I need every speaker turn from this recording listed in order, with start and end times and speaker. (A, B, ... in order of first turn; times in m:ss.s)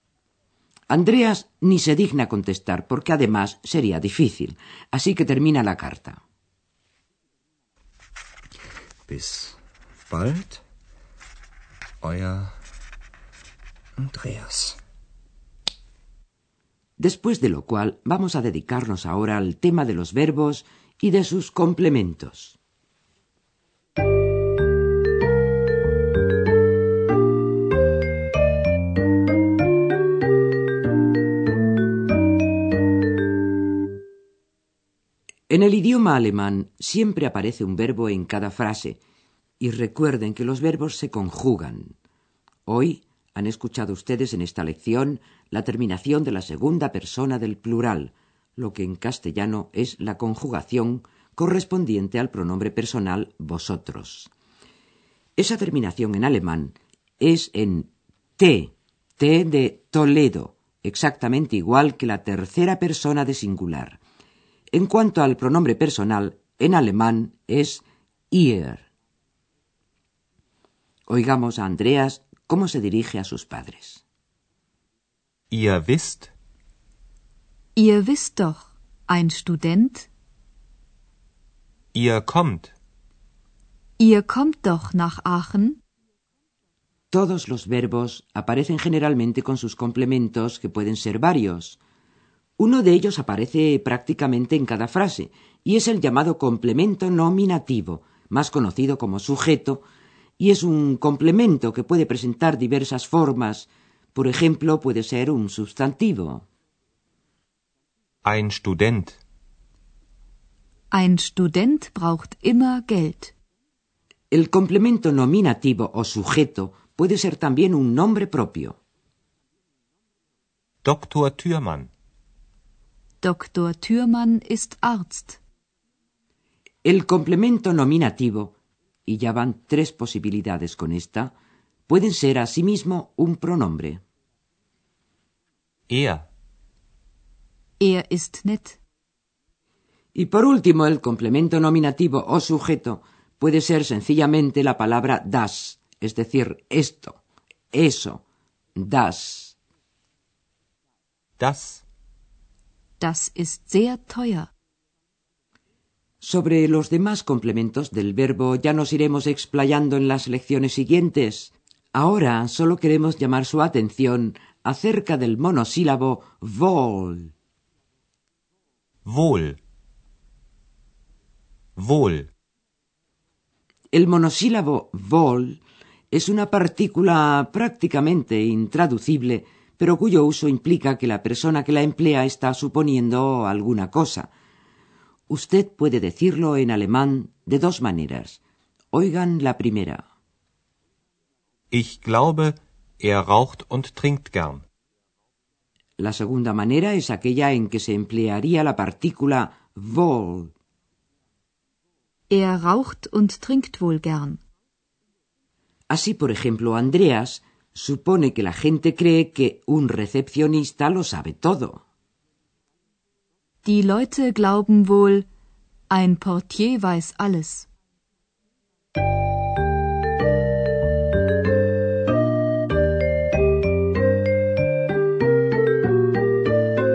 0:00.9-0:06.2 A
0:09.1-0:09.6 B
0:10.1-0:10.6 B
0:12.0-0:12.6 B
0:14.0-0:14.8 B
0:17.0-0:22.6 A
0:35.5-0:39.0 A
0:39.6-0:42.0 A
0:42.7-0:54.3 A
0:55.4-1:04.0 A
1:04.7-1:08.9 A
1:11.1-1:14.0 A
1:15.5-1:16.3 C
1:17.8-1:20.1 D
1:21.9-1:22.7 C
1:24.0-1:25.8 D
1:27.1-1:31.8 A
1:32.6-1:39.8 A
1:40.4-1:46.5 A
1:48.2-1:49.2 C
1:50.9-1:53.3 D
1:54.3-1:58.8 A
2:00.8-2:01.9 C
2:03.2-2:05.4 D
2:06.8-2:08.6 A
2:09.1-2:11.3 A
2:11.9-2:14.0 A
2:15.9-2:16.2 C
2:17.8-2:18.8 D
2:20.2-2:27.2 A
2:27.7-2:28.2 A
2:28.8-2:29.6 A
2:31.4-2:31.8 C
2:33.0-2:34.5 D
2:36.2-2:47.3 A
2:49.0-2:49.6 C
2:51.8-2:52.3 C
2:53.9-3:04.3 A
3:05.3-3:08.4 A
3:08.9-3:10.0 A
3:11.7-3:14.6 C
3:16.0-3:20.5 A
3:22.3-3:24.4 D
3:25.9-3:31.8 A
3:33.6-3:35.3 D
3:35.9-3:37.7 D